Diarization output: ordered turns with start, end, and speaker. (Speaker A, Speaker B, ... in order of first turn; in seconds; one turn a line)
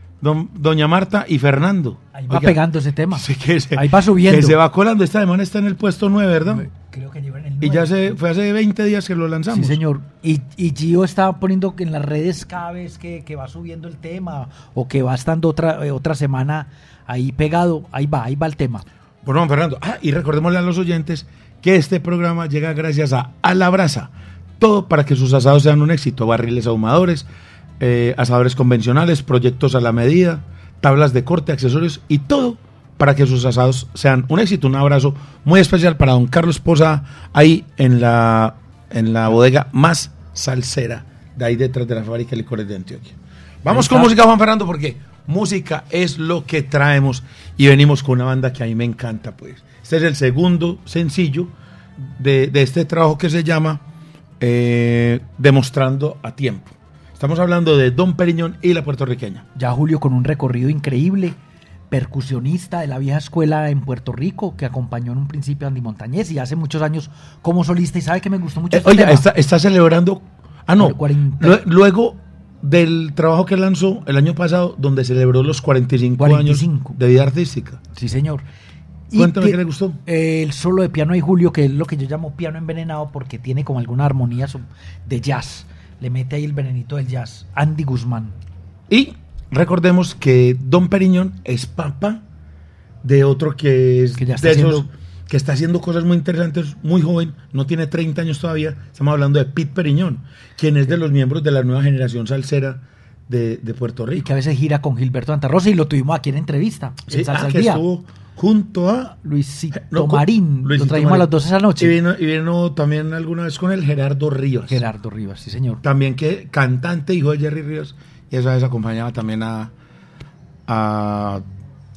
Speaker A: 0.2-2.6
Speaker B: 2.1-4.6
Speaker A: 3.1-6.7
Speaker B: 6.5-8.1
Speaker A: 7.6-9.8
Speaker B: 9.5-18.8
Speaker A: 19.2-27.3
Speaker A: 27.8-53.8
Speaker B: 43.7-44.1
Speaker A: 54.4-59.4
Speaker B: 59.5-61.4
Speaker B: 61.9-69.2
Speaker A: 68.7-77.8
Speaker B: 70.8-71.6
Speaker B: 76.2-76.9
Speaker B: 77.9-78.5
Speaker B: 79.1-88.4
Speaker A: 79.1-80.0
Speaker A: 88.9-92.2
Speaker A: 93.0-104.3
Speaker B: 94.2-94.8
Speaker B: 104.1-107.8
Speaker A: 107.1-109.2
Speaker B: 109.2-112.0
Speaker A: 109.7-114.8
Speaker B: 114.7-115.8
Speaker A: 115.8-119.7
Speaker A: 120.7-121.4